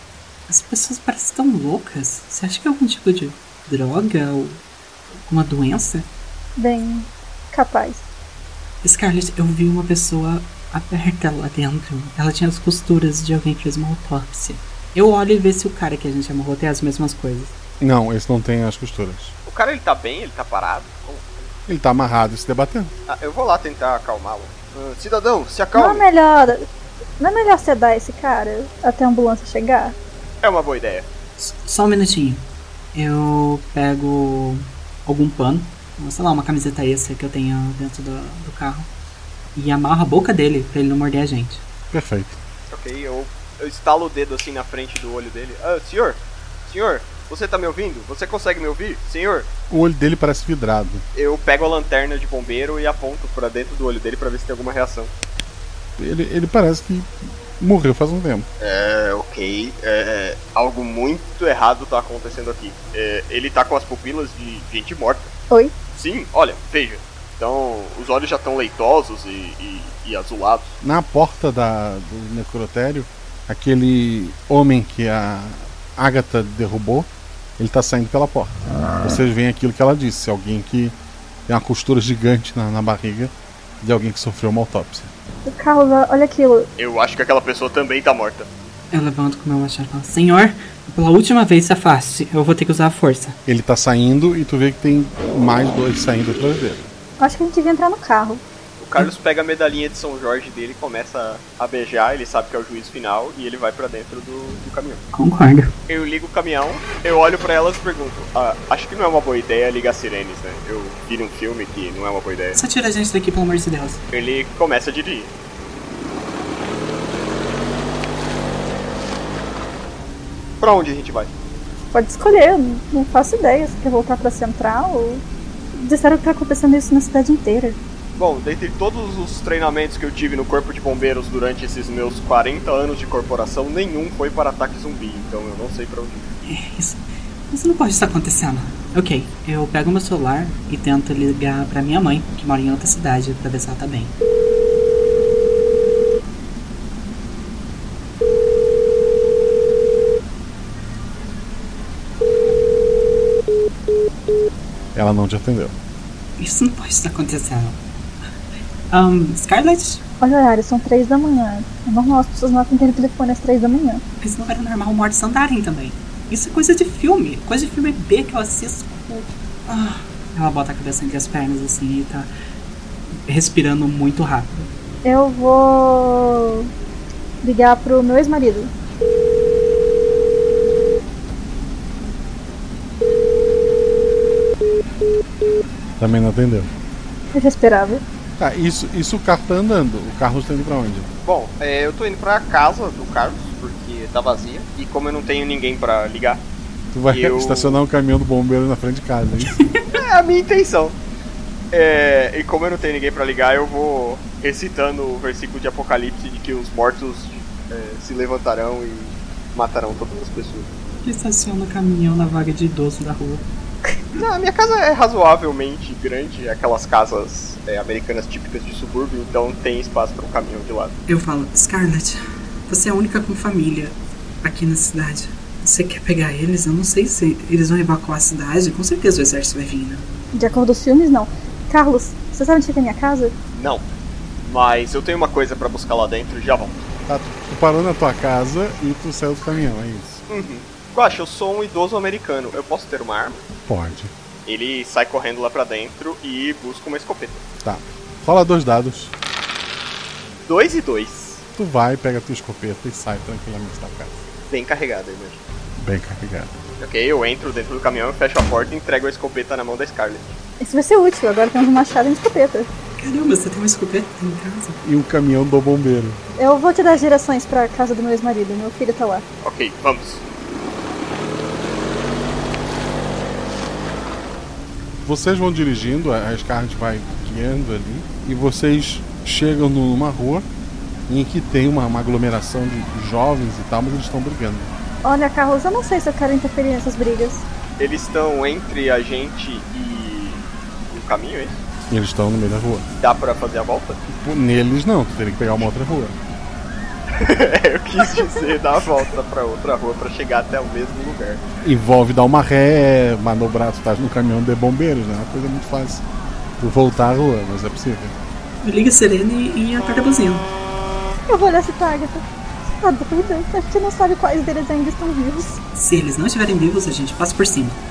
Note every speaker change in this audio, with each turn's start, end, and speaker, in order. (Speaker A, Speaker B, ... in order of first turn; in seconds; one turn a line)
Speaker A: 0.5-4.6
Speaker A: 5.2-6.1
Speaker B: 6.6-8.0
Speaker A: 8.8-17.5
Speaker C: 17.8-19.3
Speaker D: 19.4-21.5
Speaker C: 21.7-22.9
Speaker D: 23.1-26.0
Speaker B: 25.7-26.7
Speaker B: 27.2-29.9
Speaker D: 30.4-31.1
Speaker A: 31.4-32.4
Speaker A: 32.9-38.9
Speaker A: 39.5-41.6
Speaker C: 41.9-42.4
Speaker D: 42.7-49.5
Speaker C: 49.7-51.0
Speaker D: 51.1-55.1
Speaker C: 56.0-58.5
Speaker D: 58.6-65.3
Speaker D: 65.9-70.8
Speaker C: 70.8-81.0
Speaker C: 81.5-85.1
Speaker B: 85.4-86.7
Speaker D: 86.8-88.5
Speaker A: 88.9-93.4
Speaker C: 93.5-96.8
Speaker B: 97.2-98.4
Speaker D: 98.8-105.0
Speaker A: 105.1-105.7
Speaker D: 105.9-112.6
Speaker A: 112.5-114.0
Speaker D: 114.1-115.3
Speaker D: 120.6-121.3
Speaker B: 121.9-125.2
Speaker B: 125.7-127.8
Speaker D: 128.2-136.3
Speaker A: 136.4-144.1
Speaker C: 154.9-155.7
Speaker A: 156.4-157.8
Speaker A: 158.9-160.0
Speaker B: 160.2-164.0
Speaker A: 164.2-172.3
Speaker A: 173.3-174.7
Speaker B: 175.0-176.7
Speaker B: 177.4-178.7
Speaker C: 186.0-186.7
Speaker B: 187.3-188.0
Speaker C: 188.4-191.1
Speaker D: 191.2-196.4
Speaker C: 196.9-199.6
Speaker D: 197.1-197.8
Speaker D: 199.9-201.0
Speaker D: 201.7-210.7
Speaker A: 211.0-213.4
Speaker D: 214.2-220.9
Speaker A: 221.1-230.0
Speaker B: 230.3-233.3
Speaker D: 233.5-233.9
Speaker D: 234.4-236.8
Speaker C: 237.1-240.2
Speaker D: 240.3-243.4
Speaker C: 243.7-244.1
Speaker D: 244.4-247.4
Speaker C: 247.6-249.1
Speaker D: 250.4-251.4
Speaker C: 251.5-254.2
Speaker D: 254.5-255.4
Speaker C: 255.8-256.5
Speaker D: 256.8-260.3
Speaker B: 260.6-262.7
Speaker A: 263.0-264.8
Speaker C: 264.8-266.2
Speaker B: 266.4-269.2
Speaker D: 269.4-270.2
Speaker C: 275.0-280.4
Speaker C: 281.1-284.7
Speaker B: 285.0-287.4
Speaker D: 287.8-291.6
Speaker C: 291.9-292.9
Speaker D: 293.0-294.0
Speaker C: 294.1-296.2
Speaker D: 297.1-301.4
Speaker C: 301.6-306.0
Speaker C: 306.6-308.1
Speaker A: 308.6-310.4
Speaker B: 311.3-315.6
Speaker A: 315.7-317.8